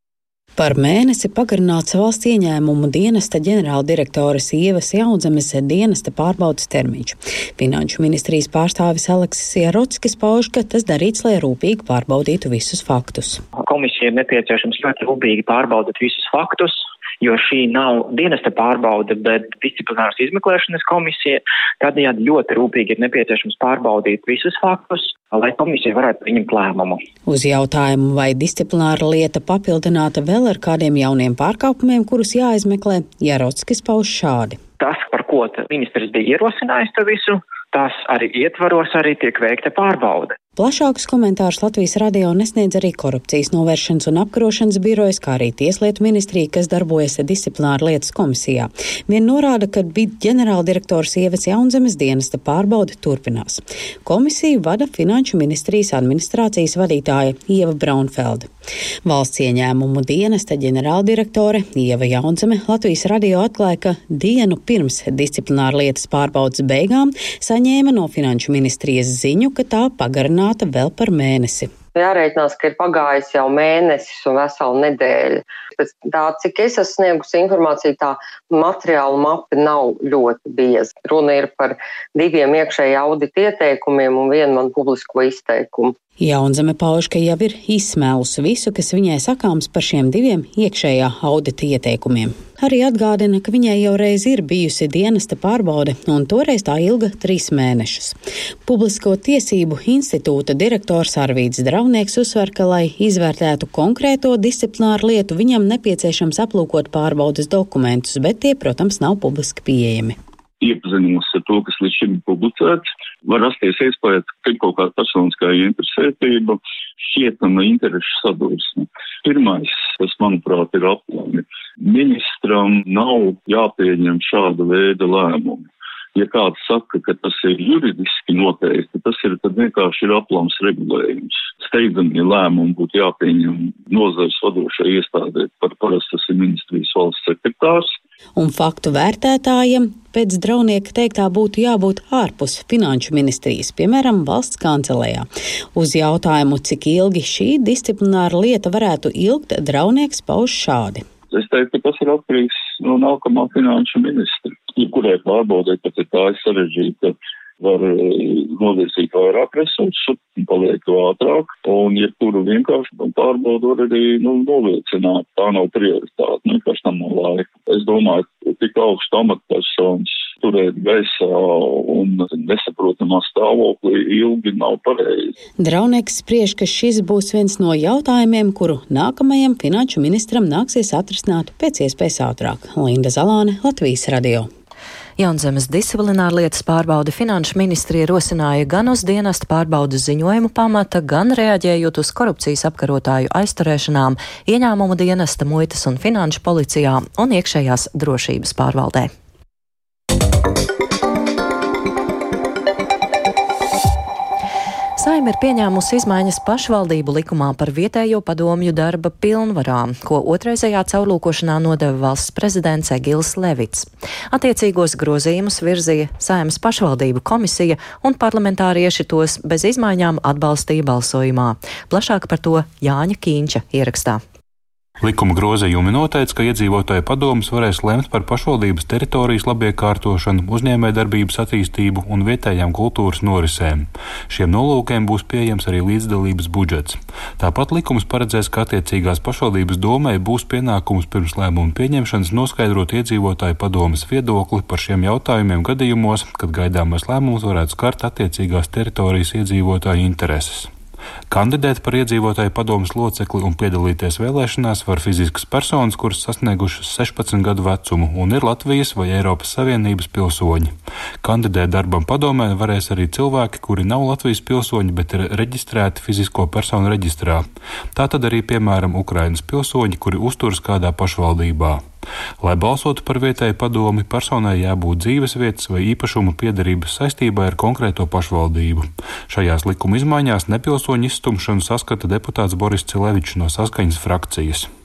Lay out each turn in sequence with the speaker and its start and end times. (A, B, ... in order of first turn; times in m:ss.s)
0:00.6-0:13.4 A
0:13.6-0:27.0 B
0:27.3-0:34.6 A
0:34.8-0:40.4 B
0:40.6-0:58.5 A
0:59.0-1:11.7 A
1:12.0-1:25.9 C
1:26.2-1:50.2 A
1:50.6-2:18.0 D
2:18.4-2:31.0 A
2:31.3-2:55.3 D
2:55.6-3:04.5 A
3:05.2-3:19.1 E
3:25.0-3:44.2 E
3:45.0-4:10.7 F
4:11.3-4:31.8 F
4:32.4-4:44.7 F